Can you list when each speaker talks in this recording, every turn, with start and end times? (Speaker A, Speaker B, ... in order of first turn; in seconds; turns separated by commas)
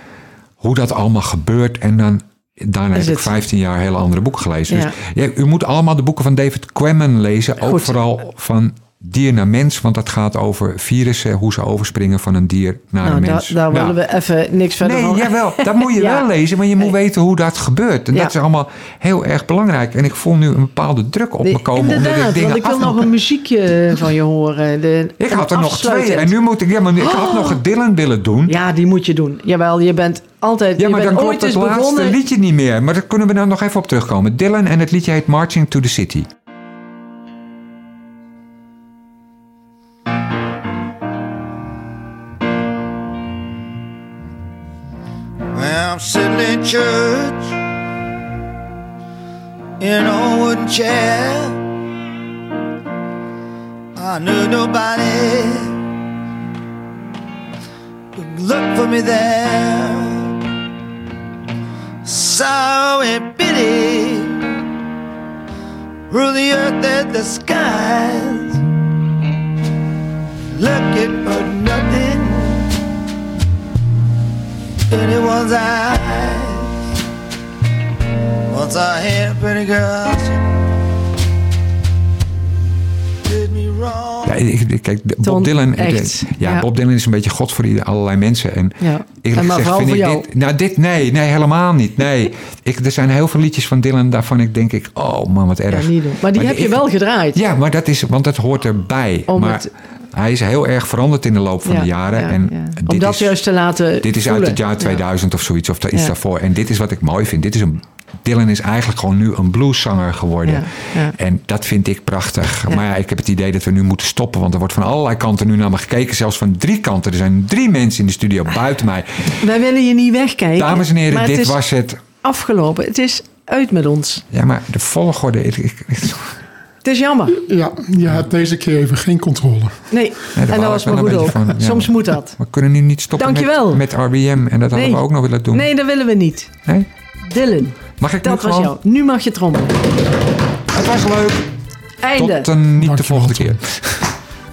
Speaker A: 0.6-14.0, Speaker B: 2.9-3.3, Speaker B: 7.6-7.9, Speaker B: 13.0-16.2, Speaker A: 14.8-23.1, Speaker B: 21.4-26.3, Speaker A: 25.2-28.6, Speaker B: 27.0-27.6, Speaker B: 28.4-32.2, Speaker A: 30.8-36.3, Speaker C: 45.5-47.5, Speaker C: 49.8-51.6, Speaker C: 53.9-55.8, Speaker C: 58.1-60.3, Speaker C: 62.0-64.5, Speaker C: 66.1-68.6, Speaker C: 70.5-72.7, Speaker C: 74.9-76.7, Speaker C: 78.5-80.5, Speaker C: 83.2-84.3, Speaker A: 84.2-103.4, Speaker B: 85.2-86.7, Speaker B: 88.8-90.3, Speaker B: 95.7-97.4, Speaker B: 99.3-99.7, Speaker B: 101.6-105.0, Speaker A: 104.0-119.4, Speaker B: 110.4-111.2, Speaker B: 119.3-121.6, Speaker A: 120.5-122.0, Speaker B: 122.2-124.2, Speaker A: 124.3-126.4, Speaker B: 126.8-127.4, Speaker D: 127.4-129.8, Speaker B: 129.9-132.3, Speaker A: 130.3-135.7, Speaker B: 133.2-133.8, Speaker B: 134.7-136.5, Speaker B: 137.2-139.8, Speaker A: 138.0-138.8, Speaker A: 140.7-141.5, Speaker B: 142.0-142.5, Speaker A: 142.1-144.1, Speaker D: 142.8-143.6